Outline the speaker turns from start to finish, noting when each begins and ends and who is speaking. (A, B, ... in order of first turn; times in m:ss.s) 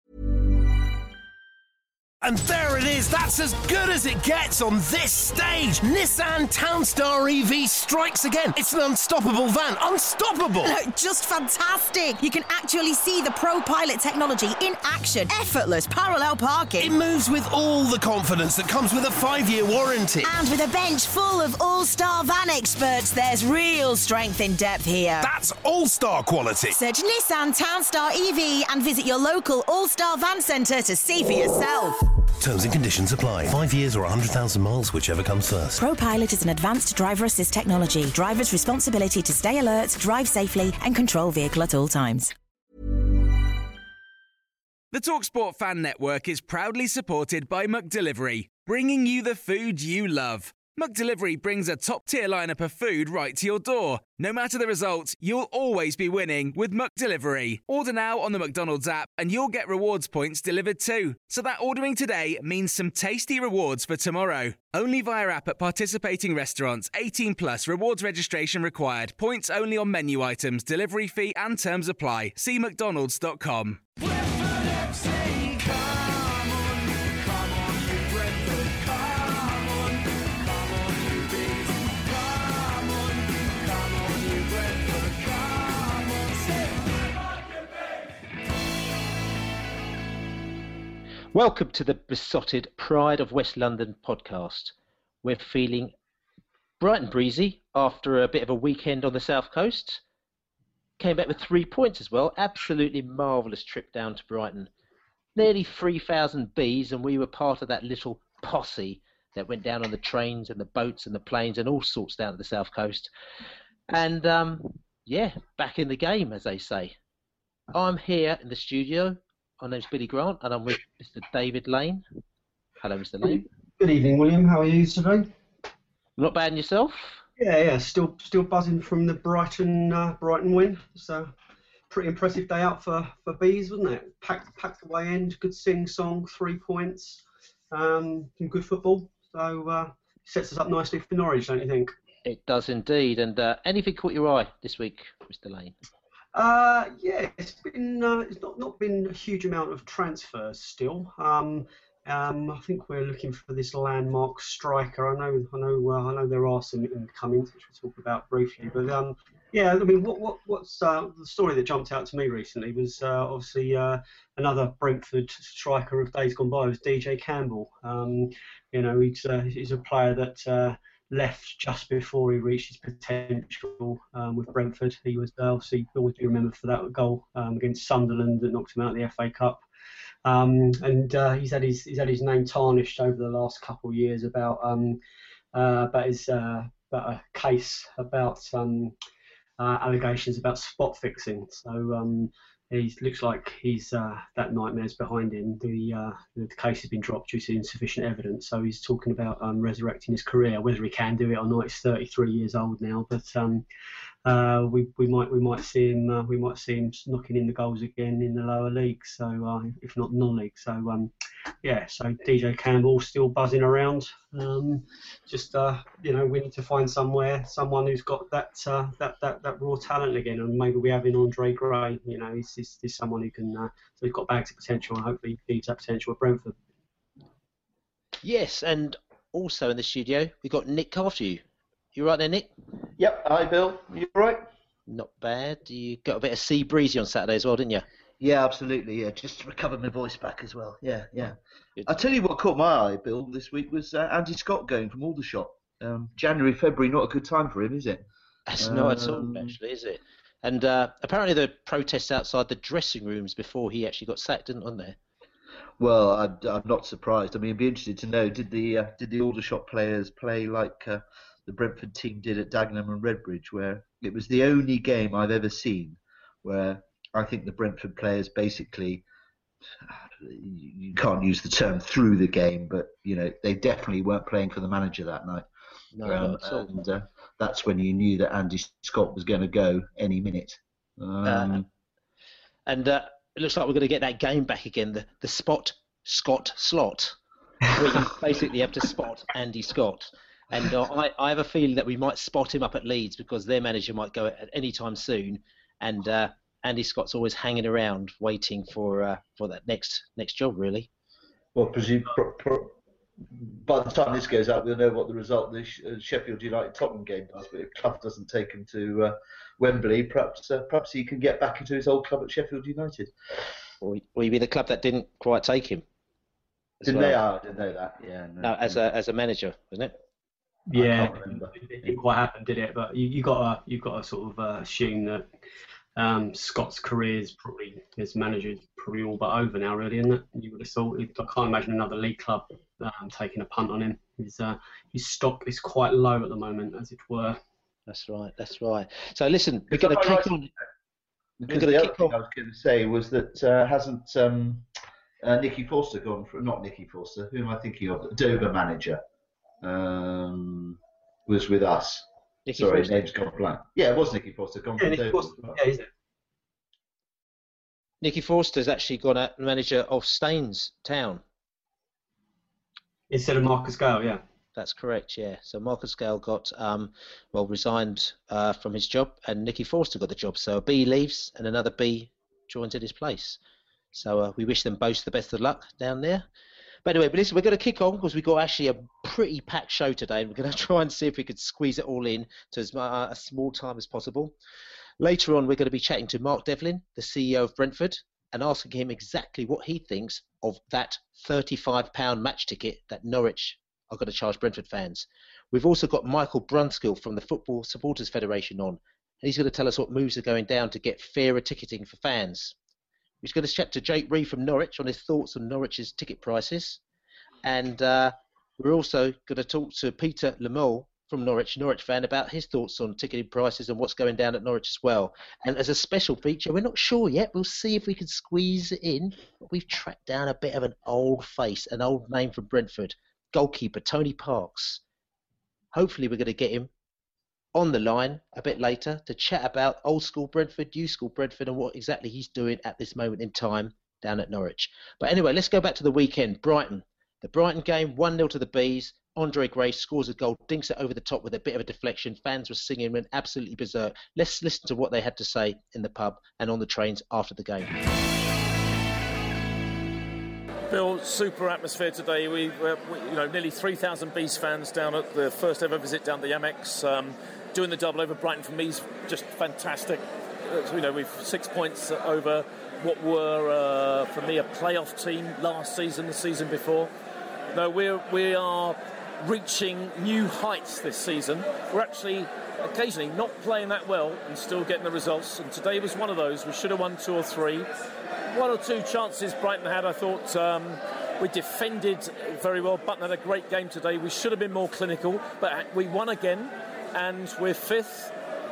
0:02.2-0:10.7 A
0:10.6-0:16.9 B
0:16.8-0:20.3 A
0:20.2-0:25.3 B
0:25.2-0:26.8 A
0:26.7-0:32.0 B
0:32.4-0:35.8 A
0:35.8-0:42.3 B
0:44.9-1:13.8 C
1:15.3-1:15.6 C
1:17.6-1:18.7 C
1:31.3-1:35.9 D
1:36.8-1:40.0 D
1:41.0-1:44.7 D
1:45.4-1:53.1 D
1:53.9-1:57.0 D
1:57.7-2:02.0 D
2:02.8-2:03.4 D
2:03.2-2:05.3 E
2:06.2-2:07.2 D
2:07.4-2:11.3 E
2:11.9-2:21.9 E
2:22.2-2:25.7 D
2:26.3-2:59.6 E
3:00.2-3:05.0 E
3:05.5-3:08.9 E
3:09.6-3:23.6 E
3:24.2-3:31.1 E
3:31.6-3:46.5 E
3:48.2-3:51.4 D
3:51.9-3:52.5 D
3:53.0-3:54.4 F
3:54.9-3:57.8 D
3:58.2-4:01.3 F
4:01.9-4:08.0 F
4:08.5-4:15.0 D
4:08.6-4:09.5 F
4:15.8-4:29.0 F
4:29.8-4:35.4 F
4:35.9-4:36.7 D
4:36.0-4:41.6 F
4:41.2-4:41.6 D
4:42.6-4:47.2 D
4:47.7-5:00.9 D
5:01.5-5:02.7 F
5:03.3-5:13.1 F
5:13.8-5:15.8 D
5:16.8-5:18.8 F
5:16.8-5:17.2 D
5:18.4-5:19.9 D
5:20.7-5:25.3 E
5:20.7-5:21.9 F
5:26.0-5:37.4 E
5:37.9-5:40.5 D
5:39.7-5:40.5 F
5:41.4-5:44.6 F
5:41.5-5:42.2 D
5:45.2-5:49.0 F
5:49.6-5:52.0 F
5:52.4-5:53.0 D
5:52.6-5:55.6 F
5:54.8-5:55.8 E
5:58.0-6:01.2 D
6:03.1-6:04.2 E
6:04.5-6:13.4 D
6:13.9-6:16.2 D
6:16.8-6:24.3 D
6:25.0-6:42.5 D
6:43.2-6:46.8 D
6:47.4-7:04.8 D
7:05.7-7:06.7 D
7:07.5-7:27.7 D
7:30.7-7:46.9 G
7:47.5-7:57.7 G
7:58.3-8:08.1 G